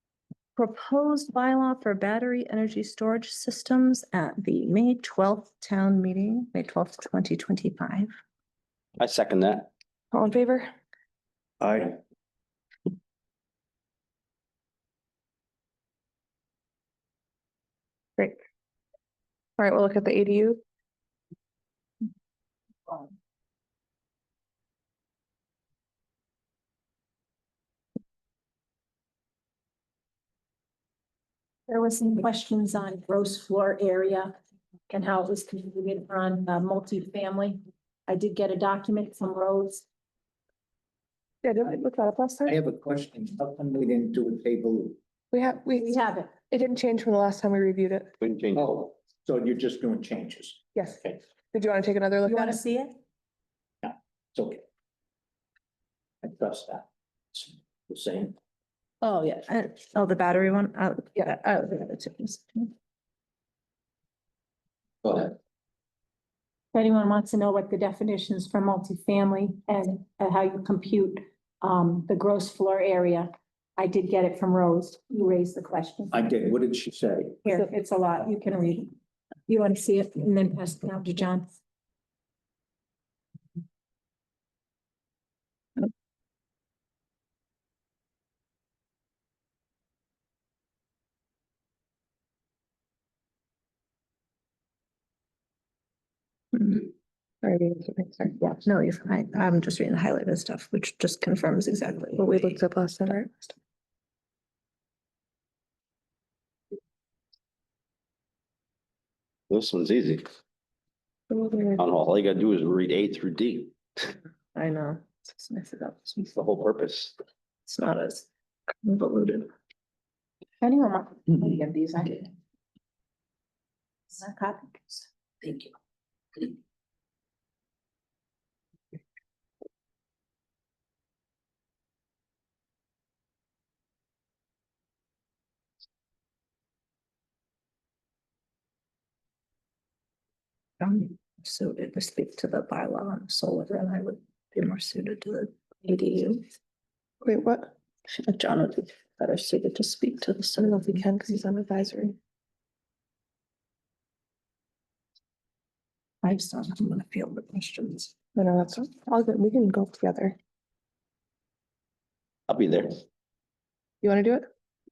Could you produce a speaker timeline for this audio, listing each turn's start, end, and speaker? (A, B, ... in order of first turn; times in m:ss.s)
0:00.6-0:08.1 A
0:09.0-0:09.7 B
0:10.1-0:10.7 C
0:11.6-0:11.9 B
0:19.6-0:20.6 C
0:31.7-0:34.3 D
0:34.9-0:39.8 D
0:41.4-0:42.5 C
0:42.4-0:45.0 E
0:45.3-0:46.0 C
0:45.8-0:46.4 D
0:46.5-0:48.1 C
0:48.2-0:48.6 B
0:48.5-0:51.2 E
0:51.5-0:52.6 C
0:52.2-0:52.9 D
0:53.8-0:54.6 E
0:56.2-0:58.3 E
0:59.1-1:02.7 A
1:05.0-1:05.4 E
1:06.7-1:16.2 D
1:16.1-1:17.4 E
1:17.4-1:18.9 D
1:19.5-1:21.5 D
1:37.4-1:38.3 C
1:38.4-1:43.2 A
1:42.2-1:43.3 C
1:49.5-1:50.3 B
1:51.3-1:51.8 C
1:51.8-1:53.7 B
1:54.5-1:56.3 A
1:56.3-1:57.1 B
1:57.6-1:58.3 A
1:58.8-1:59.5 A
2:00.6-2:02.3 D
2:04.1-2:05.7 D
2:20.8-2:26.4 A
2:27.2-2:27.7 C
2:28.1-2:31.1 A
2:30.6-2:32.2 C
2:36.2-2:38.1 A
2:38.3-2:40.4 C
2:42.5-2:43.0 B
2:44.0-2:44.5 C